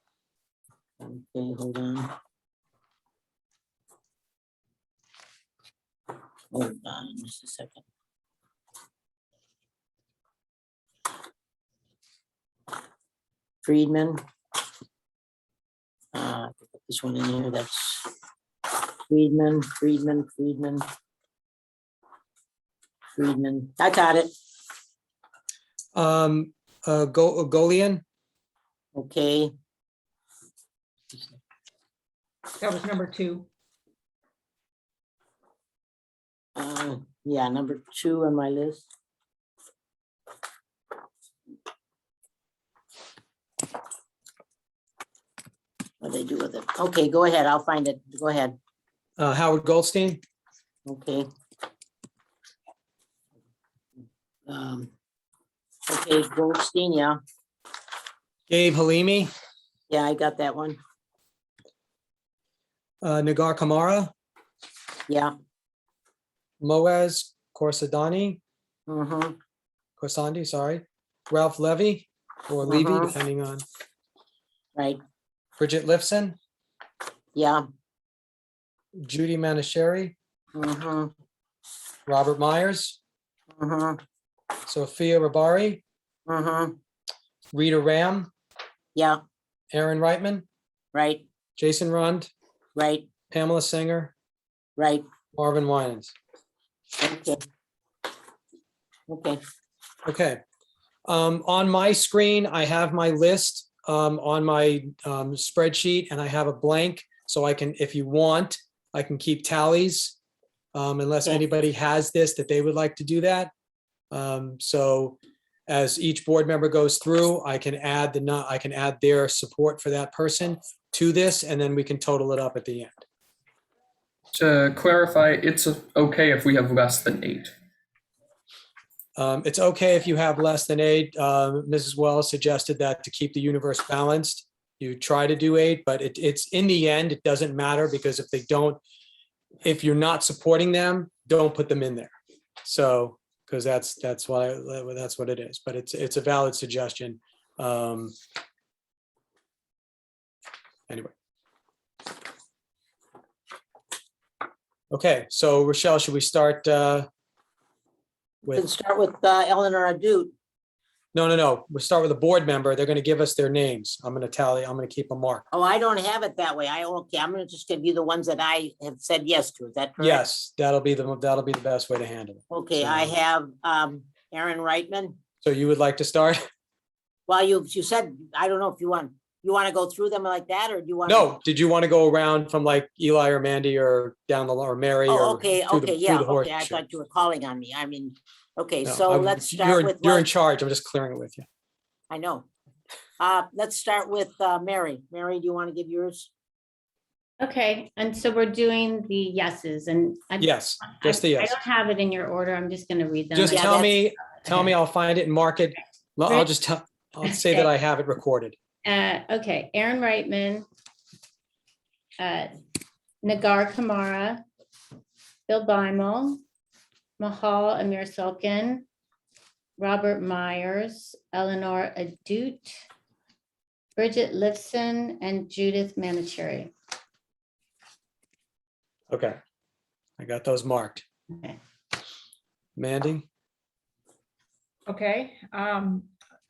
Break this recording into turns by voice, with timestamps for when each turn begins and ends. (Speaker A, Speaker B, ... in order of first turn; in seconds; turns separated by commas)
Speaker A: 1.0-2.1, Speaker A: 6.5-7.8, Speaker A: 13.6-14.2, Speaker A: 16.1-18.1, Speaker A: 19.1-20.8, Speaker A: 23.2-24.3, Speaker B: 25.9-28.0, Speaker A: 28.9-29.5, Speaker C: 32.6-33.5, Speaker A: 36.6-38.9, Speaker A: 46.0-48.6, Speaker B: 49.2-50.2, Speaker A: 50.9-51.3, Speaker A: 54.5-54.9, Speaker A: 55.9-57.2, Speaker B: 58.5-59.3, Speaker A: 59.9-60.8, Speaker B: 63.0-64.1, Speaker A: 65.1-65.3, Speaker B: 66.6-68.4, Speaker A: 68.9-69.4, Speaker B: 70.0-73.7, Speaker A: 72.7-73.1, Speaker B: 75.6-76.4, Speaker A: 77.3-77.6, Speaker B: 79.0-80.2, Speaker A: 80.5-81.1, Speaker B: 82.1-83.0, Speaker A: 83.6-84.0, Speaker B: 84.7-85.8, Speaker A: 86.3-86.8, Speaker B: 87.5-88.3, Speaker A: 89.0-89.2, Speaker B: 89.7-90.5, Speaker A: 90.9-91.2, Speaker B: 91.6-92.3, Speaker A: 92.8-93.1, Speaker B: 93.3-94.1, Speaker A: 94.8-95.0, Speaker B: 95.3-96.2, Speaker A: 97.0-97.4, Speaker A: 99.1-99.4, Speaker B: 100.0-100.4, Speaker B: 101.1-110.2, Speaker B: 110.8-113.5, Speaker B: 114.1-115.2, Speaker B: 115.7-123.0, Speaker D: 124.3-127.5, Speaker B: 129.2-138.8, Speaker B: 139.6-148.2, Speaker B: 154.9-157.1, Speaker A: 158.5-160.3, Speaker B: 161.1-165.5, Speaker A: 165.5-170.2, Speaker B: 170.0-173.2, Speaker A: 172.5-175.2, Speaker B: 175.4-176.4, Speaker A: 177.3-181.4, Speaker B: 181.1-186.8, Speaker A: 185.1-190.2, Speaker B: 188.8-191.5, Speaker A: 192.1-192.5, Speaker A: 193.2-196.3, Speaker E: 197.4-204.7, Speaker B: 200.4-201.6, Speaker B: 203.3-208.6, Speaker A: 203.5-203.8, Speaker E: 207.2-207.7, Speaker E: 208.8-210.7, Speaker E: 212.2-212.5, Speaker E: 213.2-214.4, Speaker E: 215.5-216.4, Speaker E: 217.2-218.9, Speaker E: 219.8-222.8, Speaker E: 224.0-226.7, Speaker B: 229.1-229.4, Speaker B: 230.2-231.0, Speaker E: 231.3-231.6, Speaker B: 232.8-233.3, Speaker C: 234.9-236.1